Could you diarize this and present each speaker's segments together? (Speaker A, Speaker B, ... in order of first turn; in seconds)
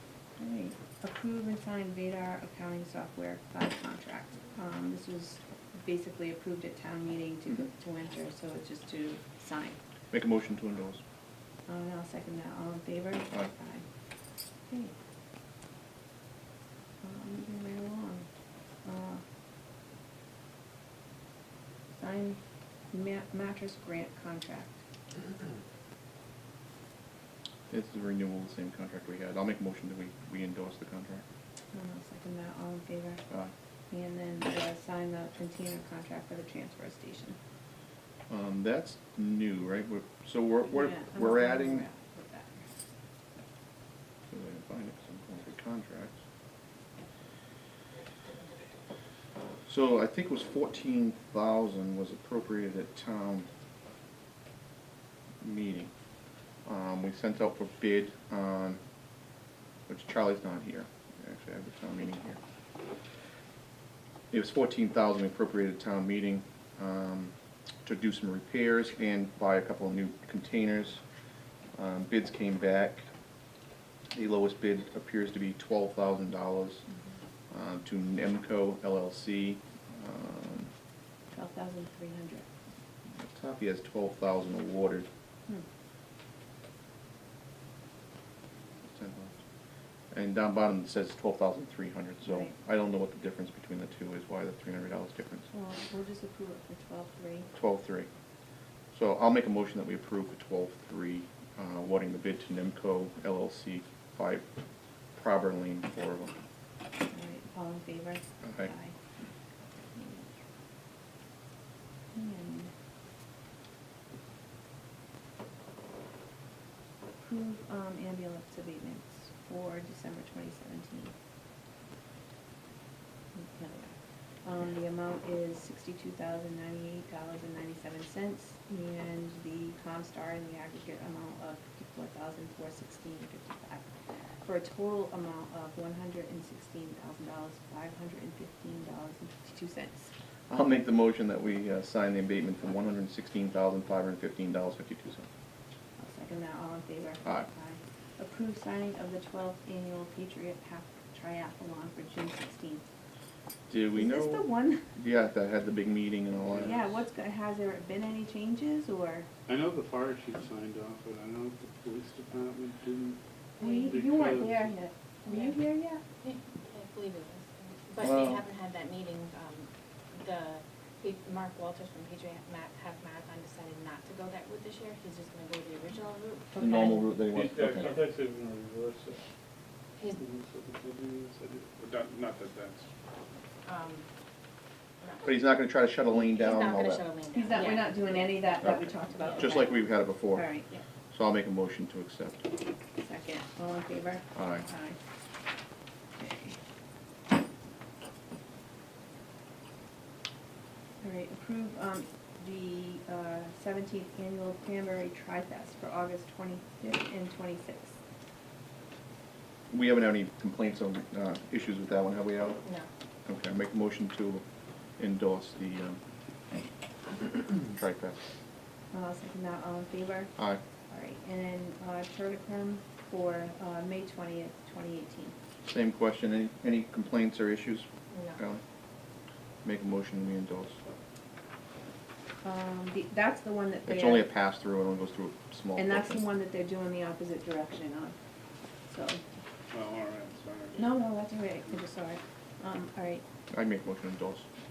Speaker A: 0.4-9.8, 11.7-13.8, 14.7-14.9, 17.0-18.3, 18.8-19.2, 21.9-22.4, 22.9-24.8, 31.7-33.2, 33.9-37.4, 40.7-42.7, 81.3-82.5, 92.3-92.5, 95.5-97.5, 107.1-108.9, 109.9-110.3, 112.1-112.7, 117.2-121.1, 123.3-133.8, 134.4-140.1, 146.0-152.8, 153.9-154.8, 156.6-159.3, 163.6-166.0, 176.6-177.0, 187.3-190.7, 193.0-195.0, 196.2-196.5, 201.0-207.9, 218.9-220.3, 220.9-225.3, 232.4-234.3, 235.8-238.2, 238.9-239.2, 240.8-243.2
Speaker B: 10.1-11.0, 27.7-31.2, 38.3-41.9, 44.3-46.1, 49.7-53.5, 55.4-55.9, 56.6-58.8, 59.9-62.4, 64.3-67.3, 67.8-71.0, 71.8-73.1, 74.1-76.8, 77.5-80.7, 83.1-85.1, 88.8-89.4, 90.1-95.5, 97.5-98.1, 98.9-104.4, 105.1-106.3, 108.4-108.7, 140.5-145.2, 153.7-156.8, 168.0-168.4, 176.5-178.0, 185.2-187.1, 188.6-190.5, 191.1-192.5, 194.3-194.7, 209.7-212.6, 213.2-214.4, 215.0-216.0, 217.5-218.2, 225.6-228.6, 229.6-230.8, 233.8-236.2, 243.5-244.4
Speaker C: 156.5-156.8, 159.5-164.7, 177.3-179.2, 180.1-182.9, 239.7-241.0
Speaker D: 166.2-176.5, 183.6-184.1, 185.0-185.2, 186.2-188.6, 189.2-189.6, 228.1-228.4